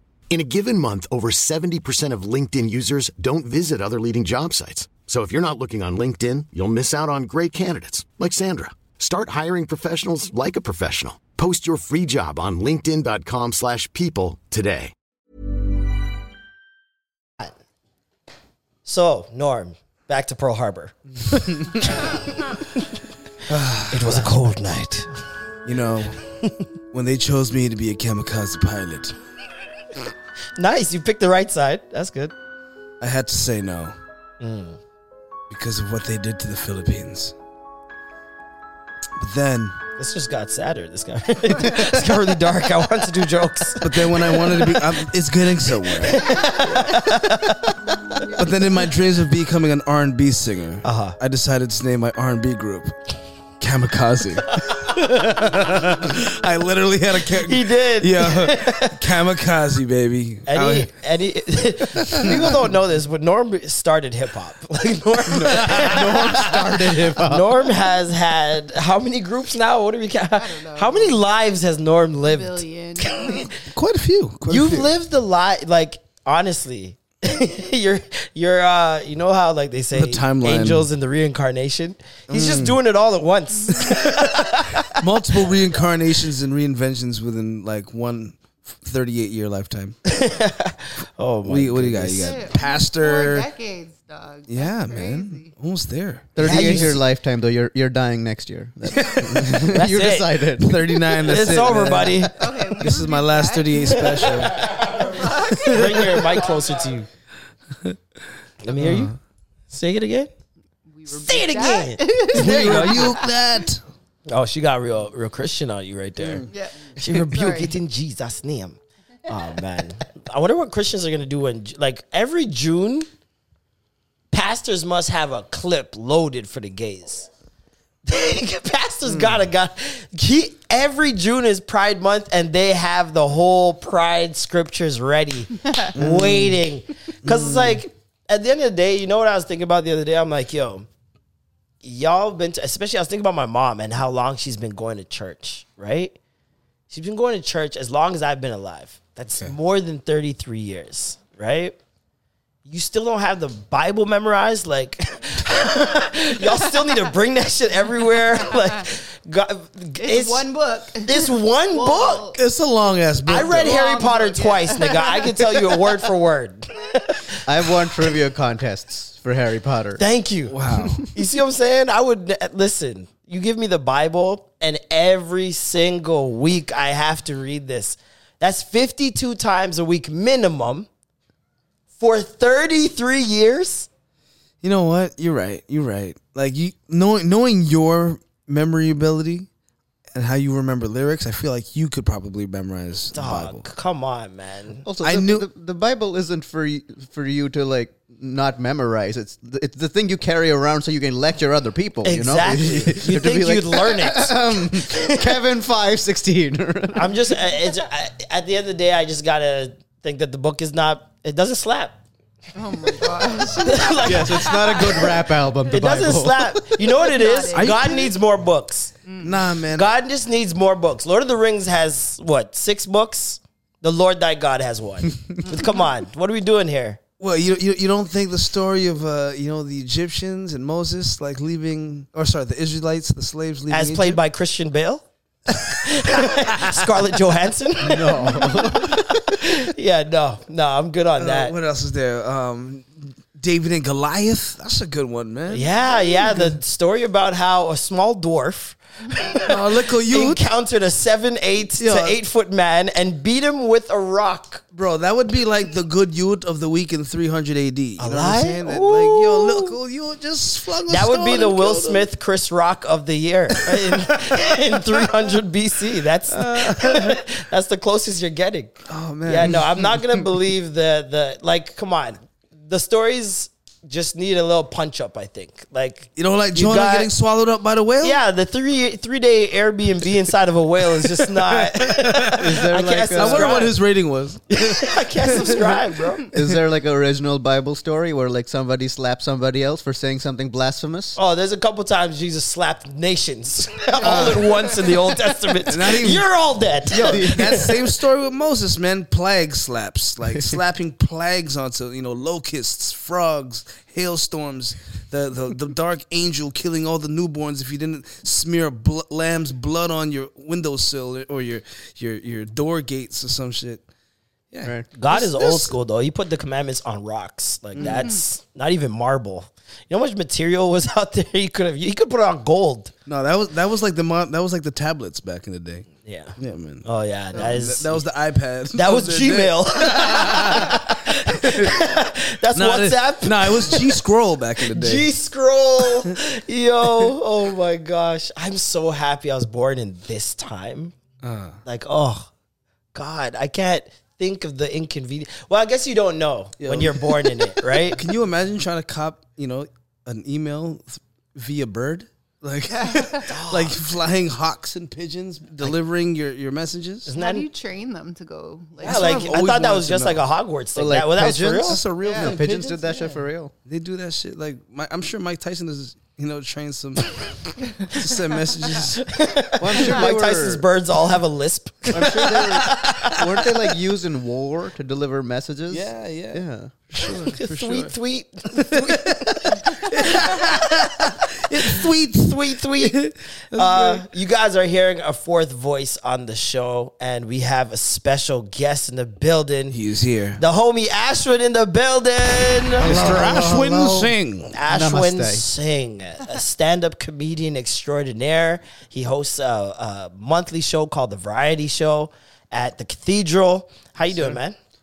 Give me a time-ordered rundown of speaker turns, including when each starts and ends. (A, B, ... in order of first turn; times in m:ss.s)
0:00.3-0:14.9 A
0:18.8-0:21.0 B
0:21.8-0:22.2 B
0:23.5-0:24.3 C
0:23.8-0:25.1 B
0:25.6-0:26.2 C
0:26.9-0:29.1 C
0:30.6-0:32.3 B
0:33.0-0:34.0 C
0:34.4-0:34.8 B
0:35.5-0:37.3 C
0:39.2-0:39.8 C
0:40.0-0:44.6 B
0:43.8-0:46.3 C
0:46.0-0:47.6 B
0:48.3-0:53.0 C
0:50.8-0:51.2 B
0:53.6-1:00.9 C
0:54.9-0:55.2 B
0:57.4-0:59.0 B
1:00.5-1:06.5 B
1:02.1-1:02.5 C
1:05.3-1:07.4 D
1:07.2-1:13.5 B
1:10.3-1:11.2 E
1:12.2-1:13.5 E
1:13.6-1:14.9 C
1:14.5-1:25.0 B
1:19.9-1:20.9 C
1:22.3-1:22.8 C
1:23.5-1:24.0 E
1:25.0-1:30.0 C
1:30.1-1:32.4 B
1:31.4-1:33.5 C
1:32.2-1:35.5 E
1:34.5-1:37.0 C
1:36.3-1:41.2 D
1:36.4-1:37.0 B
1:38.9-1:39.7 C
1:39.7-1:40.3 B
1:40.6-1:44.8 C
1:41.2-1:42.3 B
1:42.4-1:46.2 E
1:45.5-1:46.0 C
1:45.7-1:47.1 B
1:48.6-1:49.1 B
1:48.7-1:49.2 C
1:49.7-1:50.3 B
1:50.9-1:53.3 E
1:51.1-1:53.2 B
1:52.3-1:53.8 C
1:54.3-2:03.1 B
1:56.2-1:56.5 C
1:56.5-1:57.7 E
2:04.3-2:07.3 B
2:08.0-2:20.9 B
2:16.0-2:16.6 C
2:17.2-2:17.8 C
2:21.8-2:26.2 B
2:26.9-2:31.8 B
2:32.6-2:40.4 B
2:40.0-2:42.4 E
2:41.0-2:42.3 B
2:42.3-2:43.7 C
2:43.3-2:47.3 B
2:43.4-2:45.6 E
2:47.4-2:50.0 D
2:50.0-3:00.9 B
2:50.5-2:51.1 C
3:02.0-3:03.9 B
3:04.6-3:09.5 C
3:10.1-3:13.6 C
3:13.1-3:14.8 B
3:14.8-3:27.1 D
3:15.0-3:15.4 C
3:22.0-3:25.1 B
3:26.9-3:32.0 B
3:32.6-3:35.2 E
3:33.6-3:34.8 B
3:34.0-3:36.9 D
3:35.7-3:38.9 B
3:37.0-3:38.0 E
3:37.5-3:38.1 C
3:39.0-3:39.4 E
3:39.2-3:39.9 C
3:39.7-3:47.0 B
3:47.2-3:54.2 C
3:53.7-4:01.5 B
3:56.4-3:56.8 C
3:57.8-3:58.9 C
4:01.2-4:05.7 C
4:05.5-4:09.5 B
4:06.2-4:06.5 C
4:09.5-4:10.4 C
4:10.1-4:14.6 B
4:11.8-4:12.2 C
4:14.7-4:22.1 C
4:18.0-4:19.8 B
4:20.9-4:37.1 B
4:23.6-4:24.3 C
4:26.3-4:27.2 C
4:28.9-4:29.9 C
4:36.2-4:38.2 C
4:38.0-4:43.7 B
4:41.2-4:45.7 C
4:42.4-4:43.7 D
4:44.6-4:46.2 B
4:46.3-4:51.2 D
4:51.2-4:57.7 B
4:54.0-4:54.5 C
4:55.7-4:56.3 C
4:56.9-4:57.7 D
4:57.0-5:13.8 C
5:14.5-5:14.8 C
5:14.9-5:22.9 B
5:15.4-5:15.6 C
5:17.8-5:18.0 C
5:23.0-5:30.7 C
5:26.0-5:28.0 B
5:28.7-5:34.0 B
5:32.5-5:35.1 C
5:34.6-5:40.9 B
5:41.2-5:41.6 C
5:41.6-5:42.3 B
5:42.9-5:48.0 B
5:46.6-5:57.1 C
5:52.7-5:53.2 E
5:53.3-5:53.8 B
5:57.0-5:57.4 B
5:57.2-5:59.2 E
5:58.8-6:00.2 C
5:58.8-6:01.8 B
6:00.8-6:03.5 D
6:01.3-6:02.8 C
6:02.0-6:03.0 E
6:03.6-6:09.1 C
6:09.1-6:13.1 B
6:09.6-6:10.6 D
6:11.9-6:17.2 D
6:12.1-6:12.8 C
6:15.7-6:17.9 C
6:17.4-6:29.8 B
6:19.7-6:22.3 C
6:22.8-6:24.0 C
6:29.7-6:30.4 C
6:30.4-6:33.2 B
6:32.8-6:34.5 C
6:32.8-6:35.5 D
6:34.5-6:44.6 B